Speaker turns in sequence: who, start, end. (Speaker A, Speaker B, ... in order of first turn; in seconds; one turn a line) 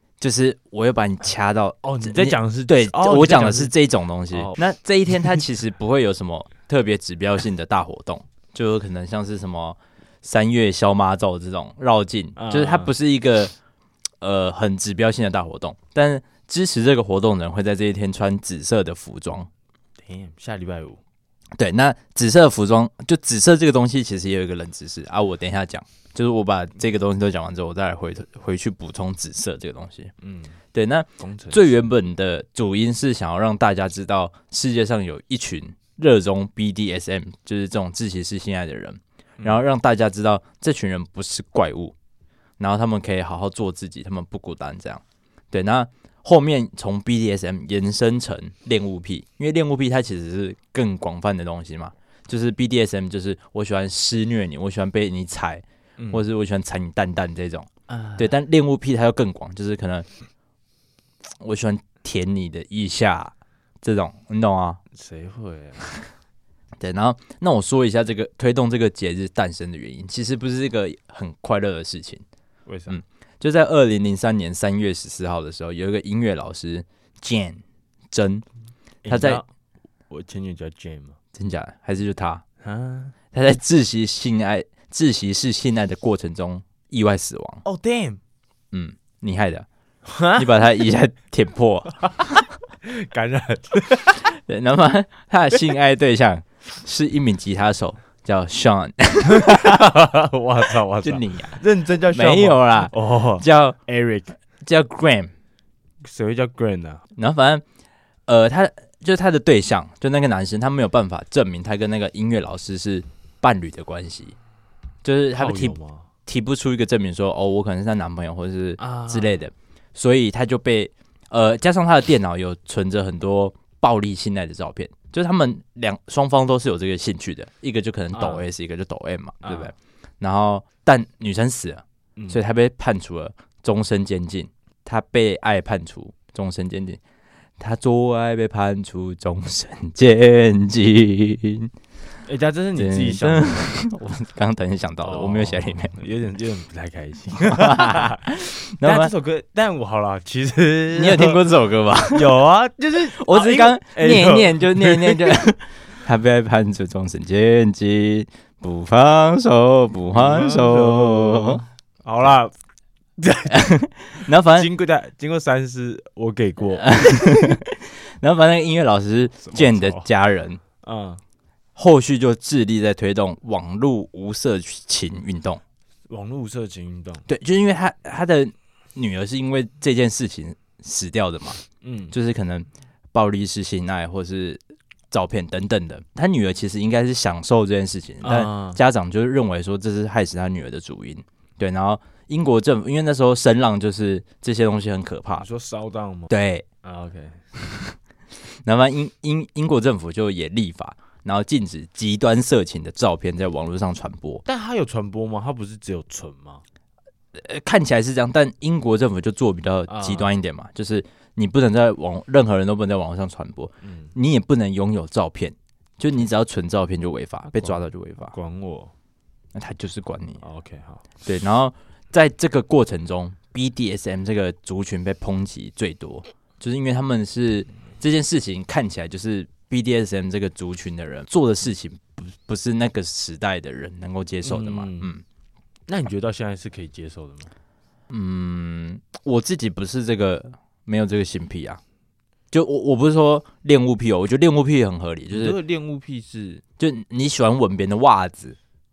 Speaker A: 0.2-13.5
Speaker B: 1.8-3.7
Speaker B: 4.3-4.6
Speaker B: 12.3-12.9
Speaker A: 14.2-19.5
Speaker B: 20.0-21.0
Speaker A: 21.6-30.1
Speaker B: 30.2-30.6
Speaker A: 30.7-41.9
Speaker B: 31.2-31.8
Speaker A: 42.6-60.1
Speaker B: 56.0-56.2
Speaker B: 57.9-58.3
Speaker A: 61.4-64.8
Speaker B: 64.9-66.0
Speaker A: 66.8-72.2
Speaker B: 72.7-73.0
Speaker A: 72.9-78.4
Speaker B: 79.0-79.5
Speaker A: 79.1-79.4
Speaker B: 80.1-81.2
Speaker A: 81.3-82.4
Speaker B: 82.6-83.1
Speaker A: 83.3-87.6
Speaker B: 87.6-88.2
Speaker A: 88.7-89.7
Speaker B: 90.0-90.6
Speaker A: 90.3-92.4
Speaker B: 92.8-94.2
Speaker A: 94.3-99.8
Speaker B: 99.2-104.4
Speaker A: 101.0-103.8
Speaker A: 104.6-105.3
Speaker B: 106.0-107.0
Speaker A: 107.1-107.6
Speaker A: 108.3-114.3
Speaker A: 115.0-137.0
Speaker B: 115.3-116.1
Speaker B: 118.8-119.5
Speaker B: 128.1-128.4
Speaker B: 129.4-129.7
Speaker B: 132.2-132.4
Speaker A: 137.6-141.7
Speaker B: 142.2-143.7
Speaker A: 142.8-145.9
Speaker B: 145.0-151.4
Speaker A: 147.4-149.1
Speaker A: 150.9-152.4
Speaker B: 152.0-155.4
Speaker A: 153.0-161.6
Speaker B: 160.1-162.5
Speaker B: 163.2-167.5
Speaker A: 163.5-164.7
Speaker A: 166.8-170.6
Speaker B: 169.4-170.1
Speaker B: 170.8-171.2
Speaker A: 171.8-175.6
Speaker B: 176.1-177.3
Speaker A: 177.3-195.5
Speaker B: 181.8-182.1
Speaker B: 188.2-188.8
Speaker B: 195.3-196.3
Speaker A: 196.3-196.7
Speaker B: 196.8-197.5
Speaker A: 198.5-204.4
Speaker B: 204.4-206.6
Speaker A: 207.3-218.3
Speaker B: 209.9-210.3
Speaker B: 213.8-214.1
Speaker B: 217.5-218.9
Speaker A: 219.5-220.4
Speaker B: 220.4-221.1
Speaker A: 221.2-235.2
Speaker B: 234.4-235.1
Speaker B: 235.9-237.5
Speaker A: 238.1-241.8
Speaker A: 242.5-245.6
Speaker B: 245.3-246.6
Speaker A: 246.8-248.6